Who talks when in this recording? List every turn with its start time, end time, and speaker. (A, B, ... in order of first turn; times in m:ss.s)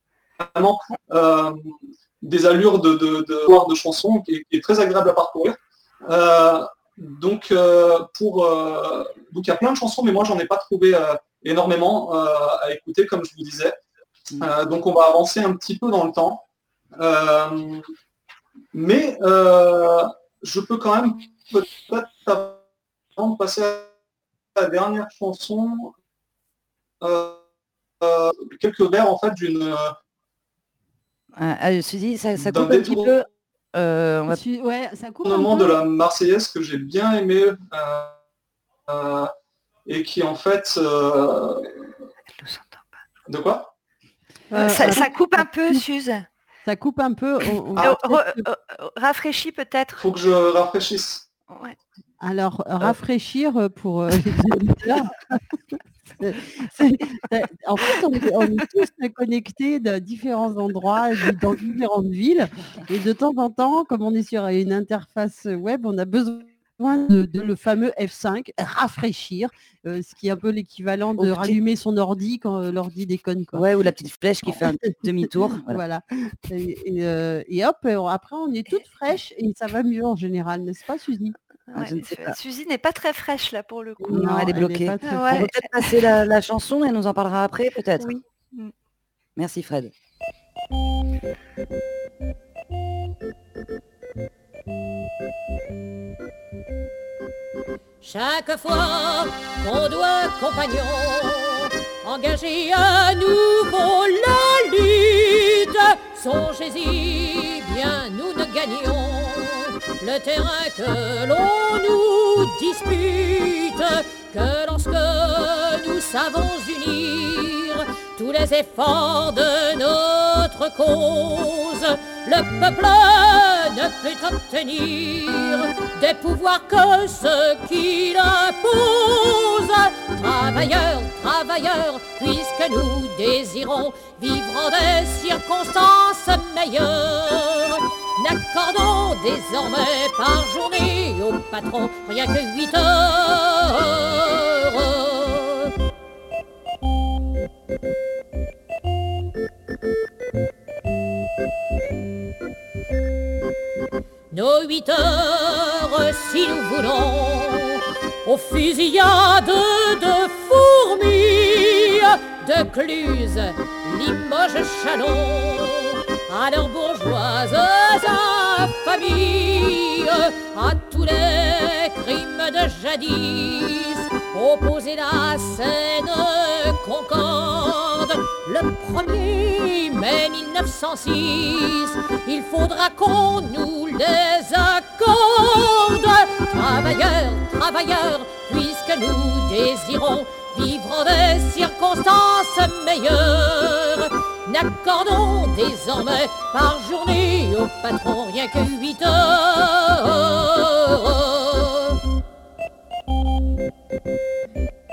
0:00.4-0:13.8 A
0:14.4-0:16.4 A
0:17.0-0:17.9 A
0:18.7-0:22.6 A
0:23.2-0:23.9 A
0:24.6-0:25.9 A
0:27.0-0:27.4 A
0:28.0-0:29.9 A
0:31.4-0:34.4 B
0:32.4-0:33.2 A
0:34.3-0:35.8 C
0:35.2-0:38.2 A
0:38.9-0:39.3 A
0:39.8-0:41.7 A
0:42.3-0:42.9 D
0:43.3-0:43.7 A
0:44.5-0:45.9 C
0:44.5-0:46.2 D
0:46.6-0:48.4 C
0:47.7-0:50.0 D
0:50.0-0:51.2 A
0:51.5-0:51.8 D
0:52.2-0:55.4 C
0:56.2-1:13.7 C
1:11.2-1:11.6 B
1:13.5-1:15.8 B
1:14.4-1:21.4 C
1:21.7-1:24.1 D
1:21.8-1:22.4 B
1:24.0-1:25.6 C
1:24.1-1:28.1 B
1:25.0-1:25.5 D
1:28.0-1:28.7 D
1:29.4-1:29.9 B
1:38.0-2:25.7 E
2:34.3-3:22.0 E